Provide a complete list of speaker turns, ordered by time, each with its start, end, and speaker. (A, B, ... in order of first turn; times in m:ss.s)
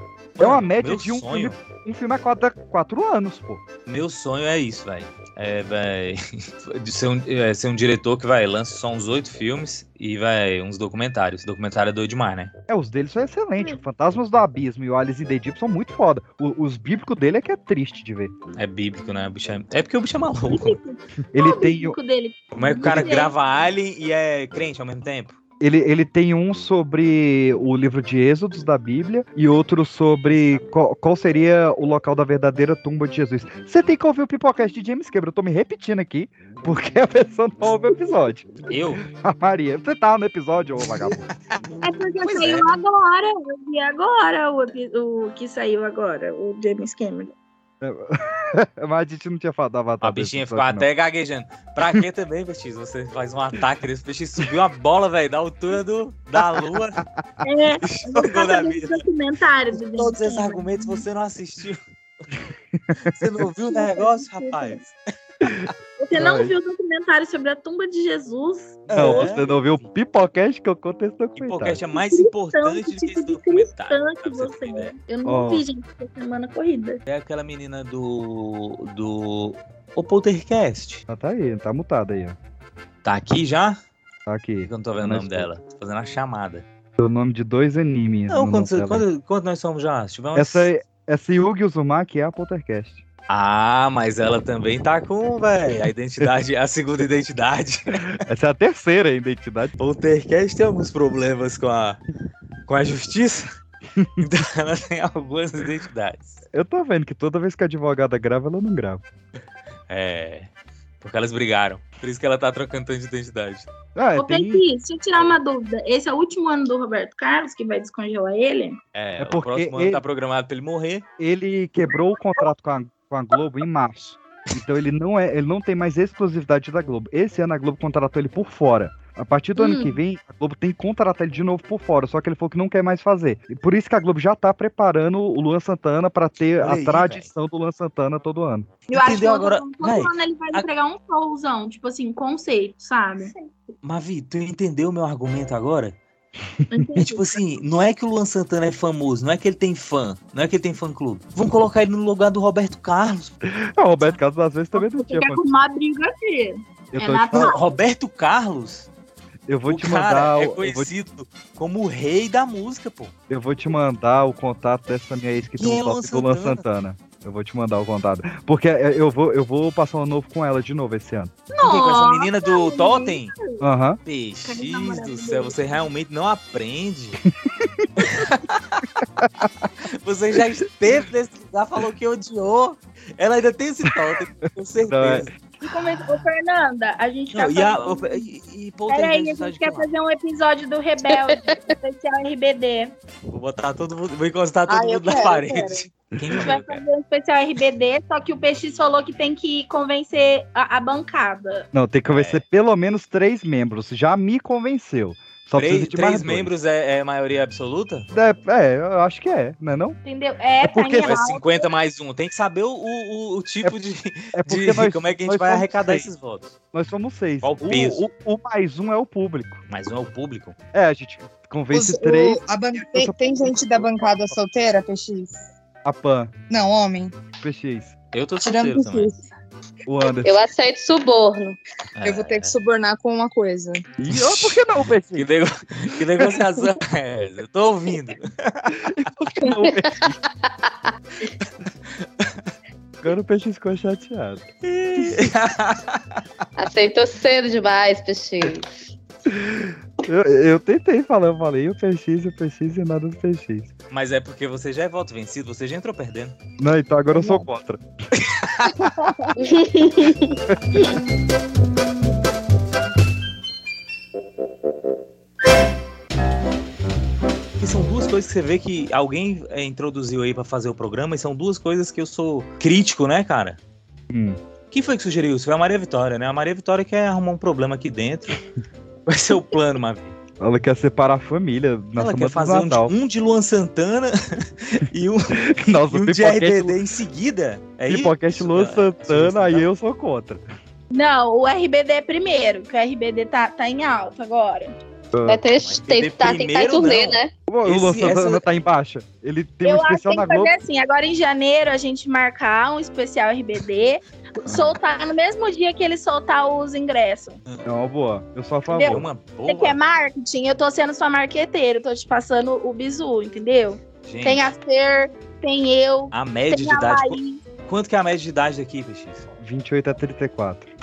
0:00.4-0:01.6 A
0:00.4-0:03.6 B
0:03.9-0:12.5 A
0:12.7-0:18.3 B
0:18.6-0:20.8 A
0:20.5-0:23.3 C
0:21.3-0:22.0 B
0:22.6-0:25.4 A
0:22.8-0:23.1 B
0:25.6-0:38.5 B
0:38.7-0:39.0 A
0:39.0-0:41.2 B
0:41.8-0:47.4 C
0:42.2-0:42.7 A
0:47.8-0:50.9 B
0:50.0-0:57.0 A
0:56.4-0:56.8 B
0:57.4-1:01.0 C
0:57.8-0:59.0 A
0:59.7-1:01.8 A
1:02.8-1:03.2 B
1:03.1-1:05.0 A
1:03.7-1:04.8 C
1:05.4-1:06.6 B
1:06.0-1:09.4 C
1:08.9-1:09.7 A
1:09.0-1:11.8 B
1:11.4-1:15.0 A
1:11.9-1:17.0 C
1:15.2-1:15.6 B
1:17.1-1:21.0 A
1:21.1-1:22.4 B
1:23.0-1:23.8 A
1:24.3-1:25.5 B
1:24.7-1:26.6 A
1:27.0-1:29.0 B
1:28.3-1:30.7 A
1:30.4-1:33.0 B
1:33.3-1:38.2 A
1:38.2-1:39.7 B
1:39.8-1:42.0 A
1:42.7-1:43.5 A
1:44.0-1:44.2 B
1:44.2-1:46.4 A
1:46.5-1:49.0 B
1:49.9-1:50.5 A
1:51.0-1:53.7 A
1:54.0-1:54.6 B
1:54.2-1:58.8 C
1:59.0-2:01.0 A
1:59.2-2:00.0 B
2:01.2-2:18.7 B
2:09.6-2:10.0 C
2:16.6-2:17.3 A
2:18.9-2:23.3 C
2:18.9-2:20.7 A
2:23.8-2:26.0 A
2:26.7-2:27.1 B
2:26.7-2:27.4 C
2:27.0-2:33.4 A
2:33.4-2:35.4 B
2:34.8-2:37.6 C
2:36.9-2:37.6 B
2:37.3-2:38.9 A
2:39.5-2:40.9 B
2:39.7-2:43.1 A
2:43.3-2:51.3 B
2:45.6-2:46.6 A
2:51.5-2:53.6 C
2:51.6-2:53.3 A
2:53.6-2:54.0 B
2:54.1-2:57.2 A
2:54.4-2:55.9 C
2:57.4-2:57.9 B
2:58.0-2:58.9 A
2:59.2-2:59.7 B
2:59.8-3:05.3 A
3:03.9-3:04.2 B
3:04.9-3:05.3 B
3:05.6-3:08.3 C
3:07.3-3:09.9 A
3:08.9-3:13.0 C
3:11.1-3:11.5 D
3:13.3-3:16.8 A
3:14.7-3:15.8 E
3:15.2-3:15.6 C
3:16.3-3:21.7 C
3:21.7-3:26.5 B
3:22.1-3:22.4 A
3:25.6-3:28.1 A
3:28.1-3:30.0 B
3:30.0-3:31.7 C
3:30.6-3:31.2 B
3:31.0-3:36.6 A
3:34.3-3:36.1 B
3:36.7-3:39.6 B
3:37.4-3:38.0 A
3:39.7-3:40.6 A
3:40.7-3:44.3 B
3:41.7-3:45.4 E
3:45.8-3:46.3 B
3:46.5-3:47.2 E
3:47.4-3:47.9 B
3:48.1-3:49.2 A
3:48.4-3:49.2 E
3:49.9-3:50.3 B
3:50.2-3:51.6 D
3:52.0-3:52.6 A
3:52.0-3:53.8 E
3:54.0-3:55.3 B
3:54.1-3:58.8 A
3:58.8-4:00.2 B
3:59.4-4:00.7 D
4:02.0-4:02.3 A
4:03.0-4:04.4 B
4:04.6-4:06.0 A
4:05.0-4:05.3 B
4:06.6-4:08.7 D
4:09.3-4:13.7 B
4:13.9-4:16.4 A
4:16.6-4:17.8 B
4:18.2-4:18.8 A
4:19.0-4:19.3 C
4:19.4-4:20.4 D
4:27.6-4:33.6 A
4:34.1-4:34.4 B
4:34.7-4:38.4 A
4:39.1-4:40.2 A
4:40.4-4:43.0 B
4:42.0-4:49.7 A
4:45.3-4:46.8 B
4:47.9-4:50.4 B
4:50.9-4:54.8 C
4:55.1-4:55.4 B
4:55.3-4:57.3 D
4:55.6-4:58.4 A
4:57.5-5:00.5 B
4:59.6-5:07.4 C
5:07.6-5:09.1 B
5:08.7-5:17.4 C
5:08.8-5:09.8 A
5:14.0-5:14.5 A
5:16.1-5:19.3 A
5:19.4-5:20.7 B